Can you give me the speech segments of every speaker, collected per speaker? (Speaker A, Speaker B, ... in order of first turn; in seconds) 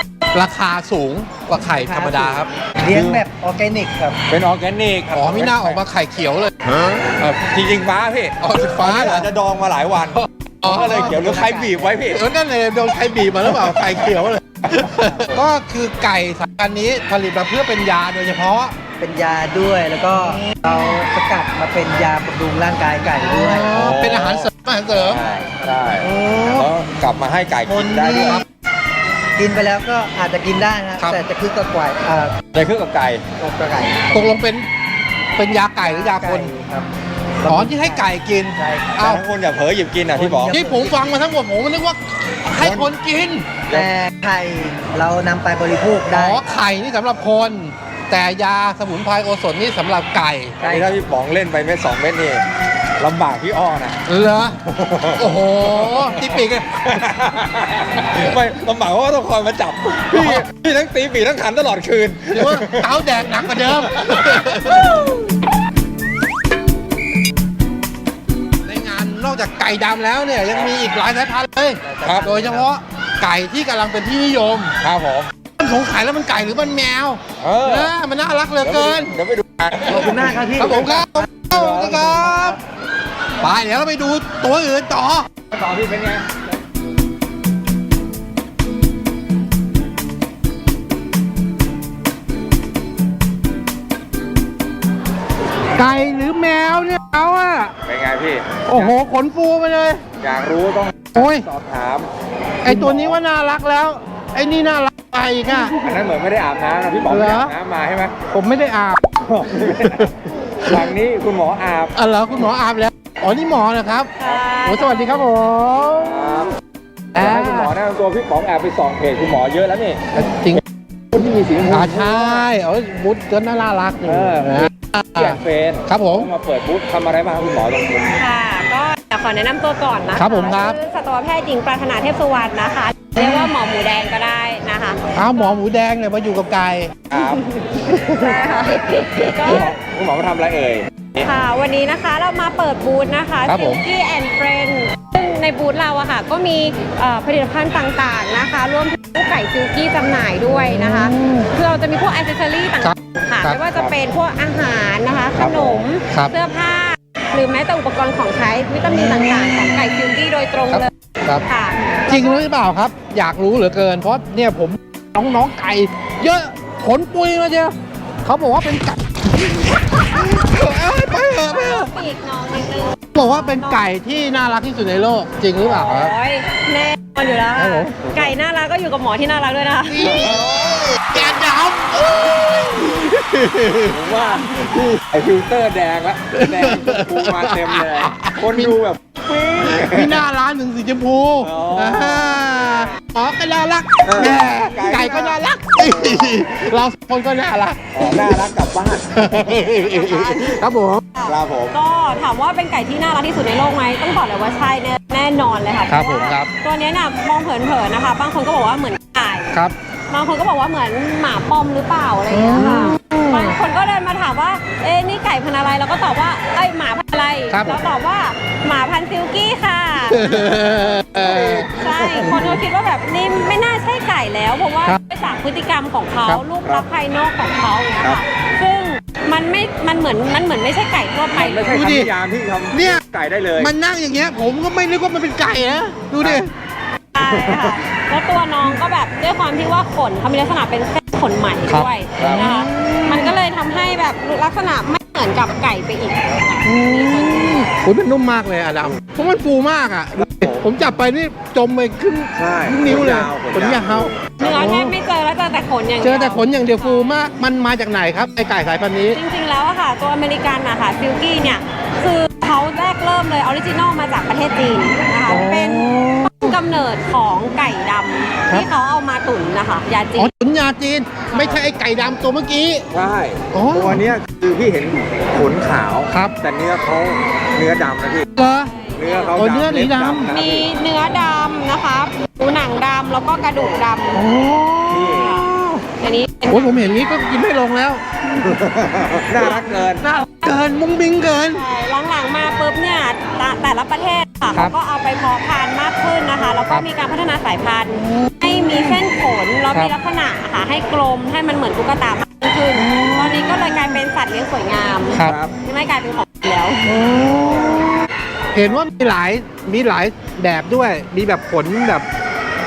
Speaker A: 0.3-2.5, 5.1-7.4, 8.4-9.3, 10.1-11.2, 12.1-18.8, 23.2-25.2, 26.0-26.7, 28.2-28.4, 34.1-34.7, 35.4-36.5, 37.5-39.2, 40.5-43.5, 46.1-50.6, 54.1-54.6, 55.2-56.9, 60.1-60.5, 62.3-65.0, 68.7-74.8, 75.6-79.2, 80.5-82.6, 83.4-85.3, 95.8-97.8, 98.7-100.0, 101.2-101.5, 102.6-105.8, 107.1-107.5, 108.3-109.1, 109.8-110.1, 110.6-110.9, 112.0-114.1, 114.7-116.3, 117.1-117.7, 120.1-120.6, 121.7-126.3, 130.2-130.8, 133.2-133.5, 135.2-137.0, 137.8-139.7, 143.5-143.8, 150.5-151.5, 152.8-153.6, 158.9-159.8, 160.7-161.4, 162.1-171.9, 173.1-176.1, 177.6-178.0, 179.9-184.0, 186.4-188.8, 189.6-198.5, 199.1-201.1, 205.9-206.5, 212.3-213.6, 217.5-217.8, 220.1-222.5, 231.7-232.1, 232.7-233.0, 233.6-236.5, 241.7-243.3, 246.7-254.9, 256.0-259.2, 265.3-266.6, 270.2-272.9, 273.5-274.1, 276.1-276.4, 278.4-278.8, 279.3-280.3, 284.1-285.9, 286.5-288.6, 289.4-291.6, 298.0-299.0, 302.8-304.0, 305.1-305.4, 306.9-308.0, 308.5-312.1
Speaker B: 1.6-4.2, 10.7-12.0, 19.0-23.7, 25.0-25.7, 27.7-28.4, 29.4-32.4, 33.4-34.3, 35.8-36.9, 37.4-39.0, 40.1-41.0, 43.7-46.7, 50.6-50.9, 71.8-72.7, 79.8-81.3, 81.8-82.6
Speaker C: 2.9-3.2, 4.3-5.8, 7.3-12.2, 13.5-14.0, 14.6-15.4, 23.7-28.4, 32.5-33.2, 39.0-40.6, 42.6-42.9, 50.6-52.4, 53.0-54.0, 54.6-55.2, 55.7-56.2, 56.9-62.9, 63.7-65.2, 72.0-72.3, 74.8-75.3, 77.4-77.9, 78.6-80.9, 81.5-82.3, 85.5-86.4, 97.8-99.0, 100.2-102.1, 102.6-103.2, 105.7-108.2, 109.2-112.0, 115.9-116.6, 117.1-122.5, 124.1-128.2, 137.1-137.6, 139.4-141.3, 155.3-155.8, 180.0-181.2, 183.9-190.2, 191.4-192.6, 194.0-196.4, 197.9-199.7, 201.3-201.8, 221.2-222.5, 231.3-233.7, 237.2-237.8, 242.2-242.5, 250.2-250.7, 252.4-254.7, 271.3-271.6, 272.9-278.3, 279.0-280.7, 284.9-285.4, 288.4-290.1, 305.2-305.5, 307.3-307.9
Speaker D: 114.2-115.2, 128.2-135.5, 137.1-139.7, 141.2-160.9, 161.4-162.5, 171.4-173.8, 175.6-180.2, 199.7-209.5, 210.1-220.3, 221.7-231.8, 237.1-247.7, 254.4-257.2, 259.1-270.3, 278.6-279.3, 280.3-284.3, 285.1-287.3, 289.4-289.8, 291.5-307.0